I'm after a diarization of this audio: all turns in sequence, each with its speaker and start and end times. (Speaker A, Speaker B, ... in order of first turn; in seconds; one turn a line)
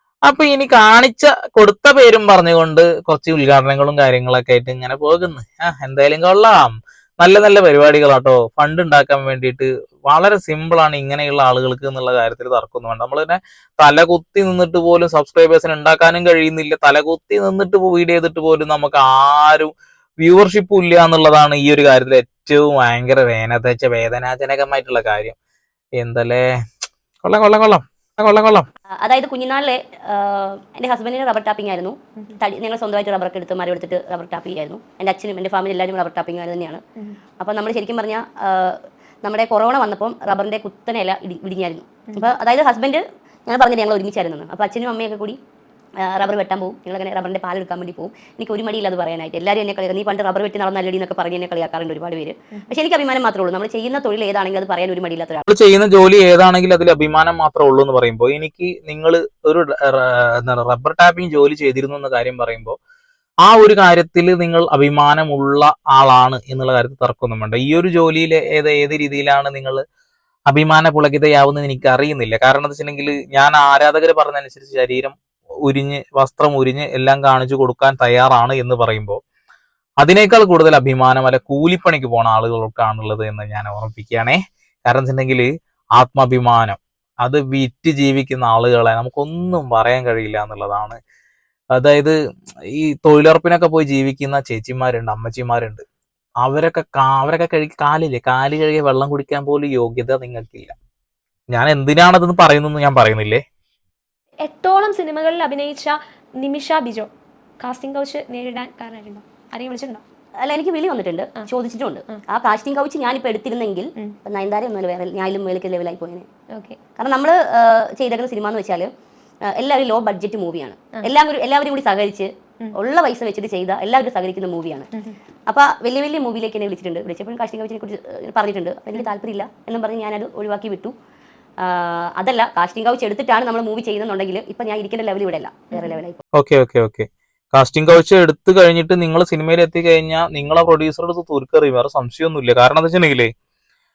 Speaker A: 0.3-25.4
Speaker A: 26.0-26.4
Speaker A: 27.2-28.7
Speaker B: 29.0-36.8
Speaker B: 37.4-45.4
Speaker B: 46.0-55.4
Speaker A: 55.5-62.8
Speaker A: 63.4-69.8
Speaker A: 70.5-79.2
Speaker A: 80.0-91.0
Speaker A: 91.8-92.2
Speaker A: 92.7-95.8
Speaker A: 96.4-100.7
Speaker A: 101.5-103.4
Speaker C: 104.5-107.1
Speaker C: 107.6-110.0
Speaker B: 110.4-116.3
Speaker B: 117.0-118.9
Speaker B: 119.5-124.9
Speaker B: 125.5-130.9
Speaker B: 131.6-136.2
Speaker C: 135.7-136.0
Speaker A: 136.3-143.3